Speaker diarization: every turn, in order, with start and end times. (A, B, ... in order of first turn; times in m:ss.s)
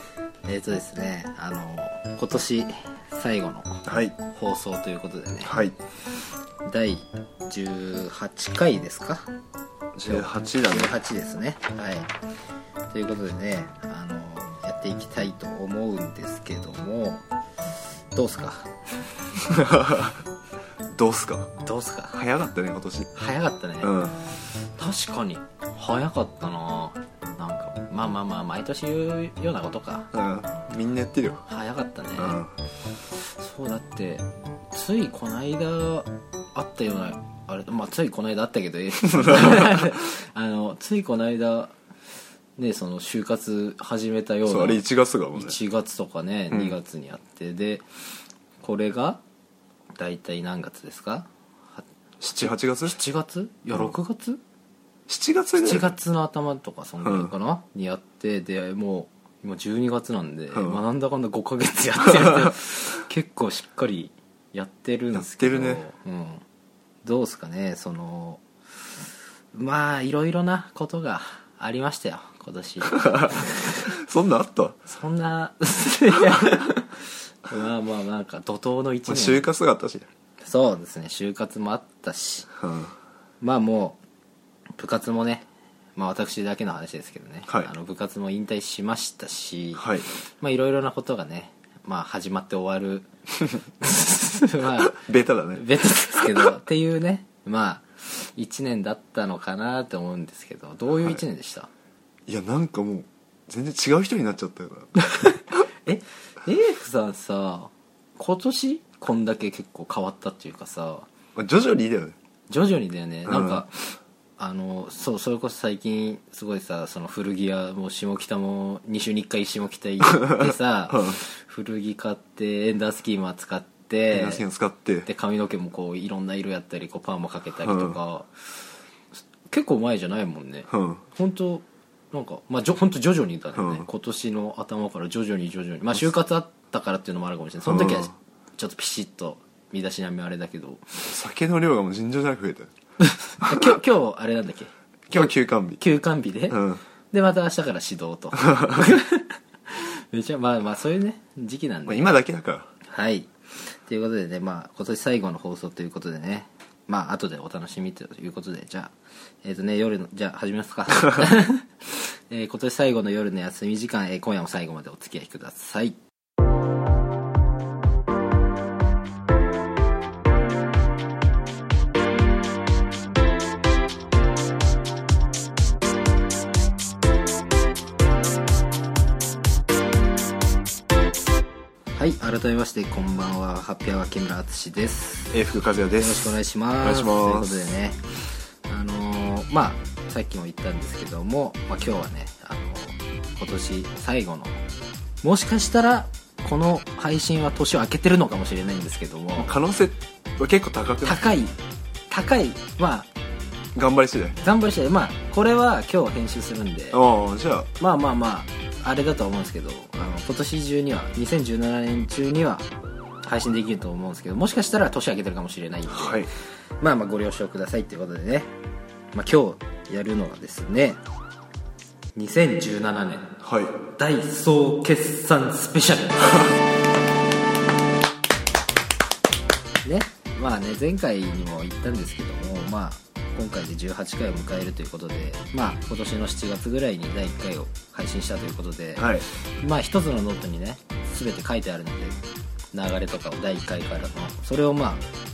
0:00.4-0:05.6 A
0:03.9-0:04.1 B
0:05.4-0:05.7 B
0:06.7-0:09.3 A
0:10.0-0:10.9 B
0:10.1-0:12.1 A
0:12.9-0:17.2 A
0:18.1-0:18.7 A
0:19.4-0:20.2 B
0:20.9-0:21.5 B
0:21.6-0:22.2 A
0:22.1-0:23.1 B
0:23.1-0:24.1 A
0:23.8-0:24.2 B
0:24.8-0:30.1 A
0:30.1-0:31.4 B
0:31.5-0:32.4 A
0:32.2-0:32.5 B
0:33.2-0:41.7 A
0:39.1-0:40.0 B
0:42.6-0:44.8 A
0:44.5-0:45.6 B
0:45.3-0:47.8 A
0:48.6-0:49.2 A
0:50.0-0:51.8 A
0:52.2-0:53.0 B
0:52.8-0:54.4 A
0:55.1-0:56.0 B
0:55.6-1:06.4 A
0:57.0-0:57.3 B
1:00.5-1:00.8 B
1:02.2-1:02.5 B
1:05.1-1:05.8 B
1:07.0-1:08.4 A
1:09.5-1:13.9 A
1:12.9-1:14.8 B
1:14.9-1:19.5 A
1:19.1-1:20.1 B
1:20.4-1:22.5 A
1:22.6-1:22.9 B
1:23.4-1:24.0 A
1:24.8-1:25.5 A
1:26.0-1:29.8 A
1:29.8-1:30.1 B
1:30.4-1:33.1 A
1:33.8-1:35.0 A
1:34.8-1:35.6 B
1:35.5-1:41.7 A
1:36.2-1:36.5 B
1:42.3-1:44.9 B
1:45.0-1:51.1 A
1:51.3-1:52.2 B
1:52.5-1:53.7 A
1:53.3-1:53.6 B
1:54.4-2:04.4 A
2:00.2-2:01.2 B
2:04.1-2:05.1 B
2:05.0-2:08.3 A
2:07.6-2:08.0 B
2:09.5-2:21.1 A
2:10.7-2:11.0 B
2:13.6-2:13.8 B
2:17.7-2:18.1 B
2:21.1-2:22.7 B
2:23.4-2:26.6 A
2:25.1-2:25.8 B
2:26.5-2:26.8 B
2:27.1-2:32.1 A
2:31.9-2:32.7 B
2:32.9-2:33.3 A
2:33.9-2:46.0 A
3:01.9-3:05.3 A
3:05.3-3:07.7 B
3:06.0-3:08.0 A
3:08.7-3:14.6 A
3:15.2-3:19.5 A
3:19.4-3:21.2 B
3:21.0-3:21.6 A
3:22.1-3:23.1 A
3:23.8-3:24.4 B
3:24.4-3:27.0 A
3:26.9-3:27.7 B
3:27.8-3:32.7 A
3:33.2-3:36.3 A
3:35.9-3:36.3 B
3:36.8-3:38.5 A
3:39.1-3:41.0 A
3:42.1-3:43.3 A
3:43.4-3:43.7 B
3:44.0-3:46.6 A
3:49.8-4:02.2 A
3:59.0-3:59.2 B
4:02.7-4:05.0 A